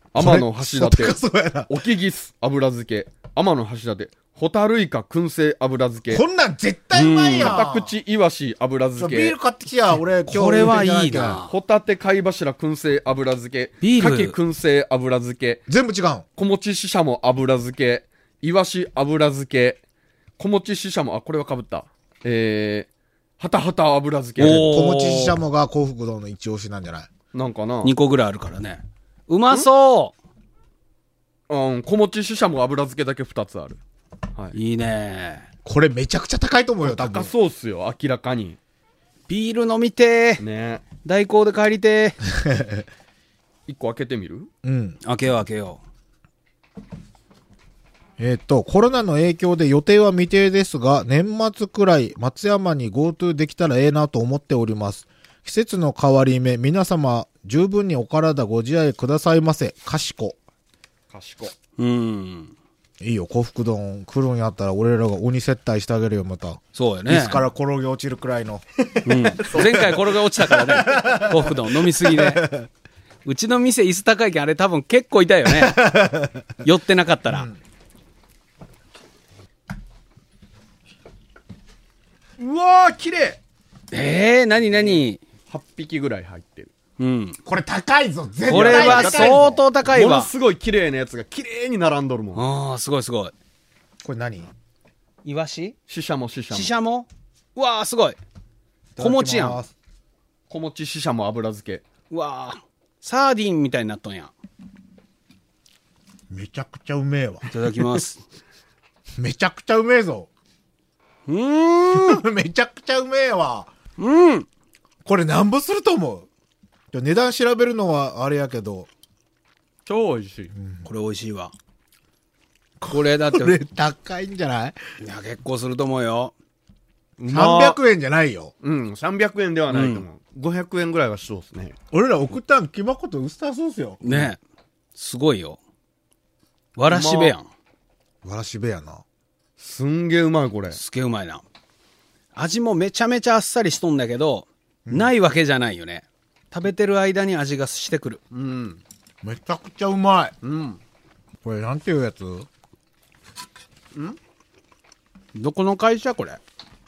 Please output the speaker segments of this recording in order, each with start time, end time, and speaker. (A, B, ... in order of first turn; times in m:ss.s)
0:00.1-0:06.2 A
0:00.2-0:01.8 B
0:06.1-0:07.9 B
0:06.9-0:07.6 C
0:07.4-0:09.4 A
0:09.0-0:11.4 B
0:10.2-0:11.5 C
0:11.5-0:15.6 A
0:13.8-0:14.4 C
0:15.7-0:16.2 B
0:16.4-0:19.8 A
0:20.4-0:22.9 A
0:23.4-0:24.7 A
0:24.4-0:25.4 C
0:24.4-0:27.1 B
0:27.3-0:27.9 A
0:27.8-0:30.1 C
0:31.5-0:33.8 A
0:34.5-0:35.4 C
0:35.6-0:37.3 B
0:36.8-0:38.6 A
0:39.3-0:40.4 C
0:40.4-0:40.8 A
0:41.0-0:42.2 C
0:42.3-0:42.8 B
0:43.7-0:44.5 A
0:44.6-0:45.0 B
0:45.0-0:45.8 C
0:48.2-1:00.4 B
1:01.1-1:01.5 A
1:01.8-1:02.5 C
1:03.0-1:08.6 B
1:06.7-1:07.4 C
1:09.0-1:10.2 A
1:09.0-1:12.5 C
1:10.7-1:12.6 B
1:13.2-1:15.9 C
1:15.5-1:16.4 B
1:16.6-1:17.5 C
1:17.3-1:17.6 B
1:22.4-1:23.4 A
1:23.9-1:25.2 C
1:25.5-1:26.7 A
1:27.0-1:27.4 C
1:27.4-1:29.6 B
1:28.5-1:30.3 C
1:28.5-1:32.4 A
1:32.3-1:33.3 C
1:34.0-1:34.5 B
1:35.2-1:35.7 C
1:35.9-1:36.7 A
1:36.5-1:38.2 C
1:39.0-1:39.7 B
1:39.0-1:39.6 C
1:40.5-1:41.8 A
1:42.1-1:44.3 C
1:46.3-1:47.5 B
1:47.5-1:48.2 C
1:49.2-1:50.3 B
1:51.3-1:52.2 C
1:51.9-1:53.7 B
1:54.0-1:54.5 C
1:55.0-1:56.3 B
1:56.9-1:58.9 B
1:59.8-2:00.5 A
2:00.5-2:00.8 B
2:00.8-2:01.5 C
2:02.8-2:04.8 B
2:02.9-2:03.6 C
2:05.0-2:06.3 C
2:07.2-2:07.8 A
2:07.3-2:08.5 B
2:08.6-2:11.8 A
2:09.7-2:10.0 C
2:11.9-2:14.3 B
2:14.0-2:14.4 C
2:14.9-2:15.6 C
2:16.8-2:17.5 C
2:16.9-2:17.3 A
2:18.2-2:19.0 B
2:19.6-2:20.8 A
2:20.7-2:21.4 C
2:22.3-2:28.2 C
2:24.8-2:25.1 B
2:28.3-2:28.8 A
2:29.2-2:30.3 B
2:30.4-2:30.8 A
2:31.4-2:32.5 B
2:35.3-2:36.4 C